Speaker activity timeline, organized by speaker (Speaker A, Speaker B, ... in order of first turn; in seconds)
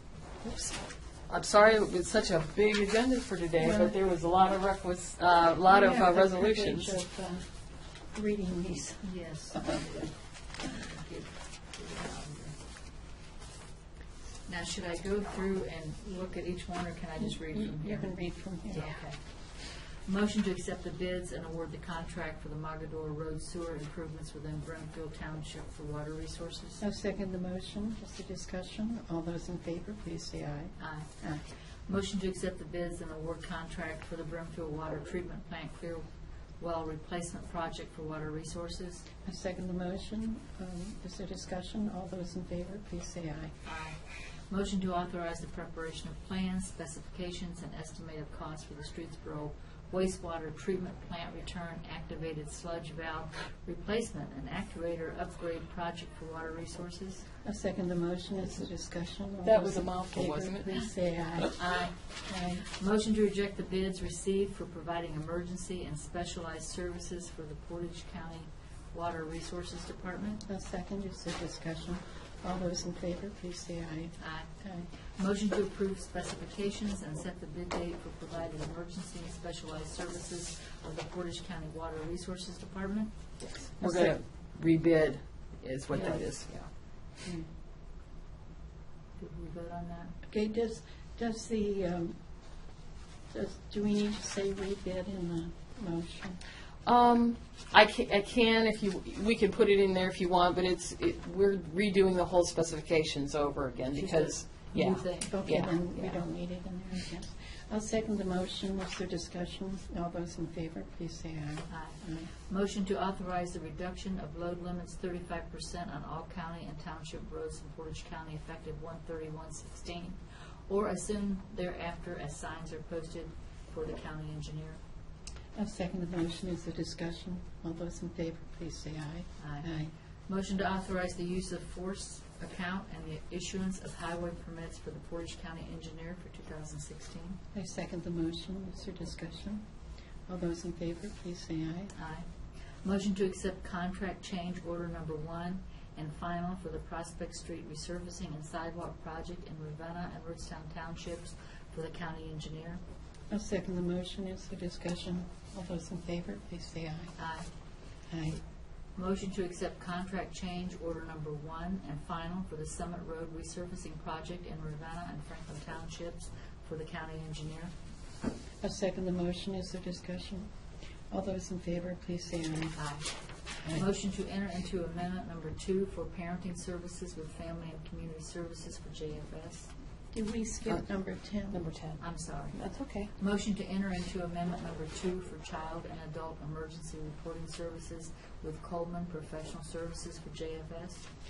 Speaker A: 0.4-7.0, 59.4-60.7, 83.7-86.5, 96.8-105.7, 181.5-183.1
Speaker B: 3.6-3.9, 5.7-7.5, 8.1-9.8, 17.5-18.9, 26.8-31.4, 39.2-43.5, 57.4-61.6, 62.2-62.6, 70.5-74.9, 83.8-84.1, 90.3-92.2, 93.3-96.4, 105.3-112.3, 125.5-129.9, 137.5-139.7, 140.3-141.9, 153.3-157.1, 158.1-158.4, 168.6-170.5, 171.1-172.8, 180.1-181.6
Speaker C: 9.0-12.6, 14.4-18.1, 18.7-26.8, 30.8-31.1, 31.9-39.0, 43.6-57.3, 61.5-70.4, 74.2-83.1, 85.9-86.7, 89.2-90.2, 103.9-106.2, 111.7-124.8, 129.4-129.7, 130.3-137.4, 141.9-142.3, 142.8-152.8, 157.2-157.5, 158.9-167.7, 172.7-173.1, 173.6-179.7, 182.0-182.6, 183.1-191.0